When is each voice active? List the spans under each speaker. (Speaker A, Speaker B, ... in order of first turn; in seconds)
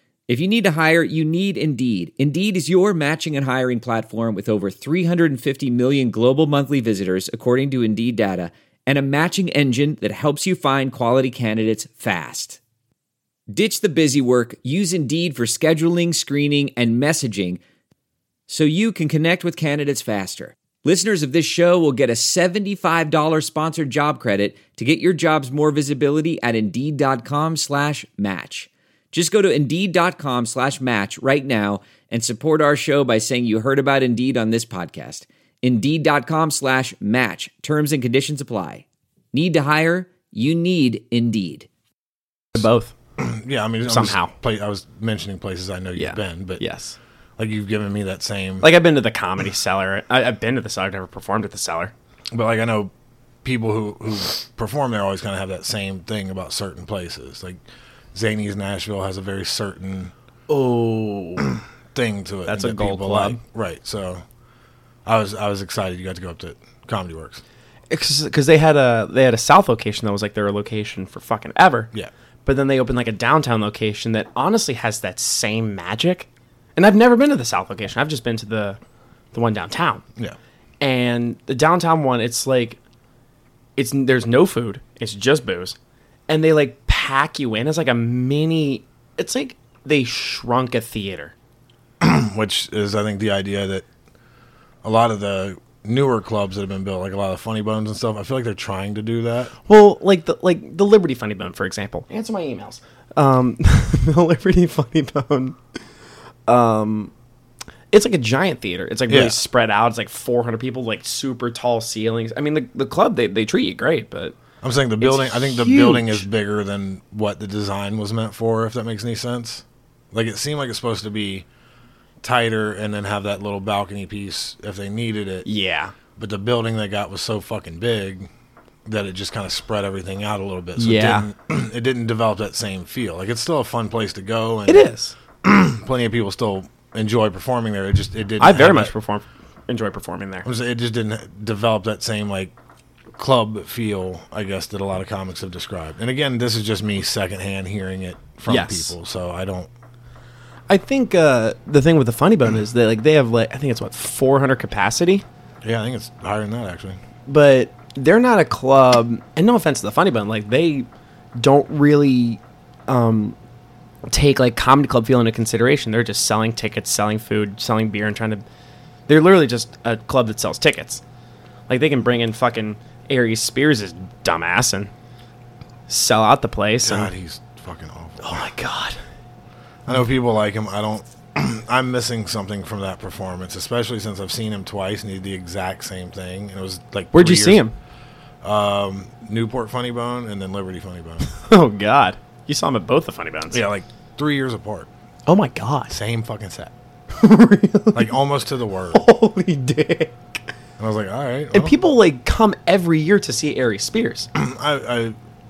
Speaker A: 0.3-12.6, 13.5-17.6, 18.5-41.7
Speaker B: 42.5-42.9, 43.9-44.3, 46.0-47.0, 48.6-51.9, 60.5-61.5, 62.5-63.4, 67.9-71.9, 72.5-78.8, 79.3-80.0, 80.8-82.8, 83.8-85.8, 86.3-91.3, 99.7-105.6, 106.5-107.1, 107.9-114.4, 115.0-116.2, 125.4-125.9, 130.8-131.3, 134.7-135.1, 138.4-140.5, 148.5-148.9, 150.7-155.2, 157.3-163.4, 164.1-168.4, 169.1-171.0, 171.7-174.9, 175.9-177.1, 178.2-179.0, 187.1-187.7, 191.3-193.6, 195.3-195.9, 197.1-198.1, 198.9-200.4, 201.5-204.3
Speaker C: 43.2-46.6, 47.4-48.7, 52.3-52.9, 53.4-57.6, 58.1-60.1, 61.6-64.2, 65.0-67.4, 92.0-93.8, 94.8-99.5, 109.1-109.4, 114.6-121.5, 122.2-125.5, 126.2-128.3, 128.8-134.9, 135.4-138.9, 140.4-142.5, 143.2-149.7, 155.6-157.0, 176.8-178.5, 179.8-187.6, 188.4-191.3, 193.5-194.9, 195.9-196.7, 197.9-199.0, 200.8-201.8, 204.3-205.2